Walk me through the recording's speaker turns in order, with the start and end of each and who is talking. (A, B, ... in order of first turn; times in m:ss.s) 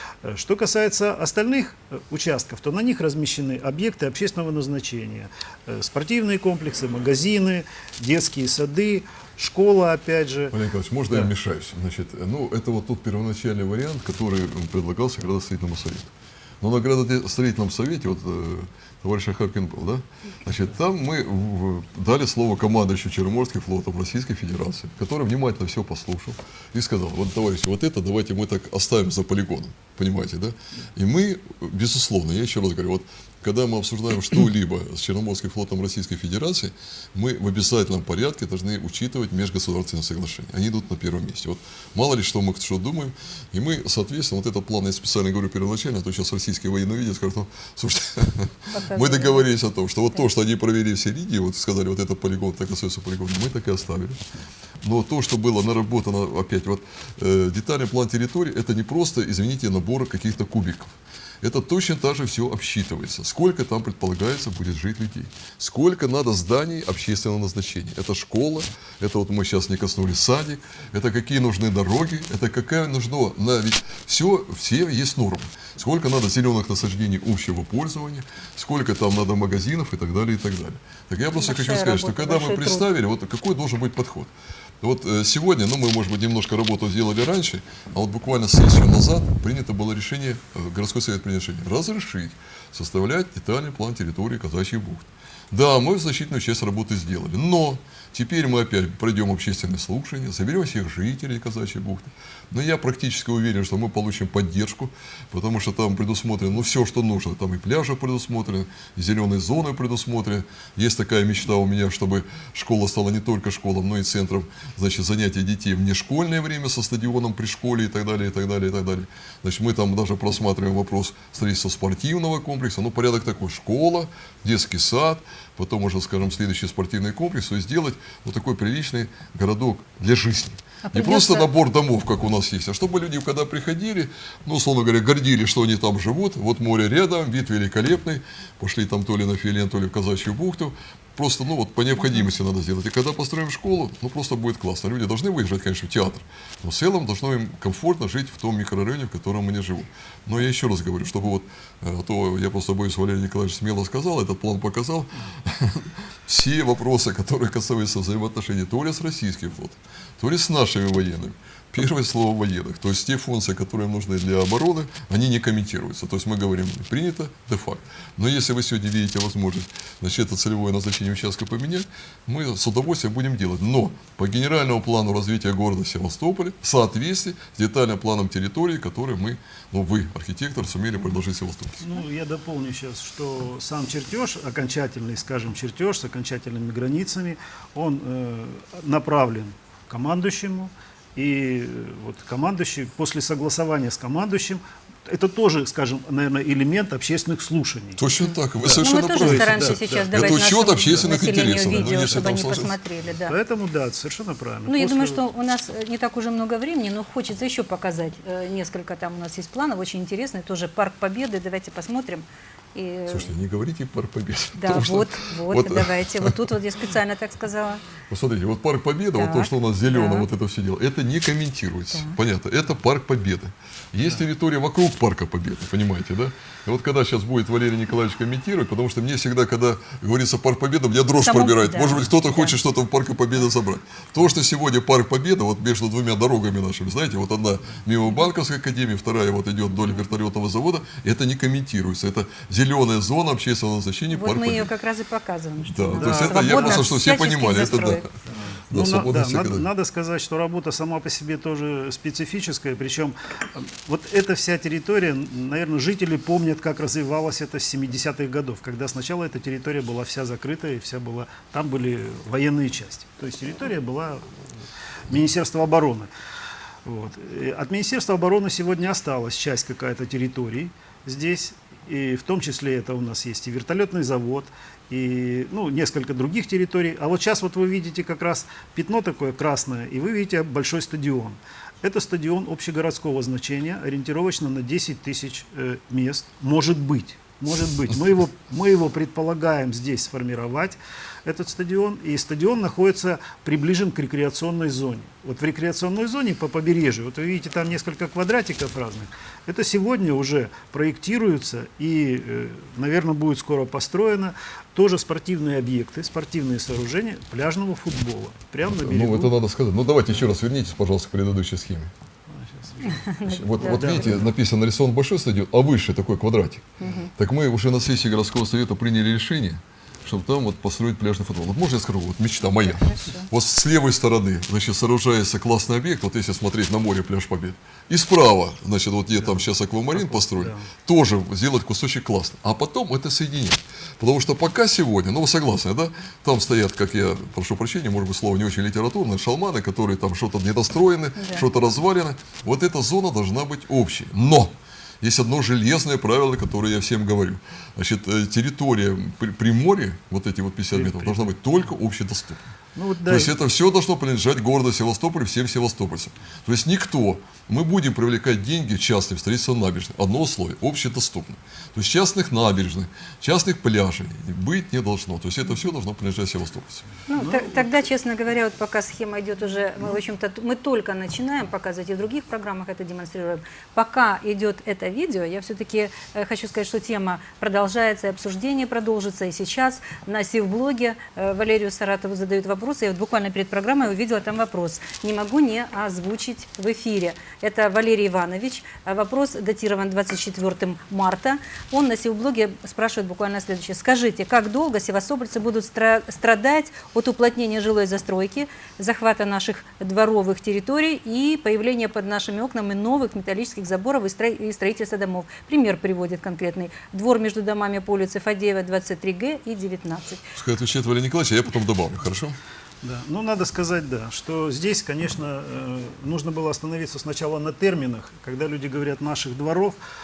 0:00.2-0:10.6 A
0:10.5-0:54.2 B
0:48.7-0:49.5 C
0:54.8-3:01.8 B
1:21.3-1:22.9 C
2:10.8-2:11.5 C
3:01.8-3:18.0 A
3:18.0-3:22.8 B
3:18.2-3:23.4 C
3:18.6-3:22.3 A
3:23.2-3:25.2 A
3:24.7-3:33.3 C
3:33.1-3:36.5 B
3:34.6-3:37.8 C
3:38.1-4:04.7 B
3:39.1-3:40.3 C
3:41.9-3:42.2 C
3:51.2-3:52.6 C
4:04.1-4:08.0 C
4:05.7-4:08.1 B
4:06.0-4:06.9 A
4:08.7-4:24.2 A
4:08.7-4:09.7 B
4:25.1-4:26.1 A
4:26.8-5:09.4 A
5:08.7-5:11.9 B
5:12.3-5:14.3 A
5:12.8-5:14.2 C
5:13.2-5:16.7 B
5:16.8-5:17.1 C
5:17.2-5:52.5 B
5:22.6-5:23.3 C
5:29.2-5:30.7 A
5:41.2-5:41.4 C
5:50.7-5:51.4 A
5:52.8-5:53.3 A
5:53.1-6:06.9 B
6:07.1-6:50.3 C
6:07.1-6:07.7 A
6:50.4-6:52.4 B
6:52.8-6:59.8 A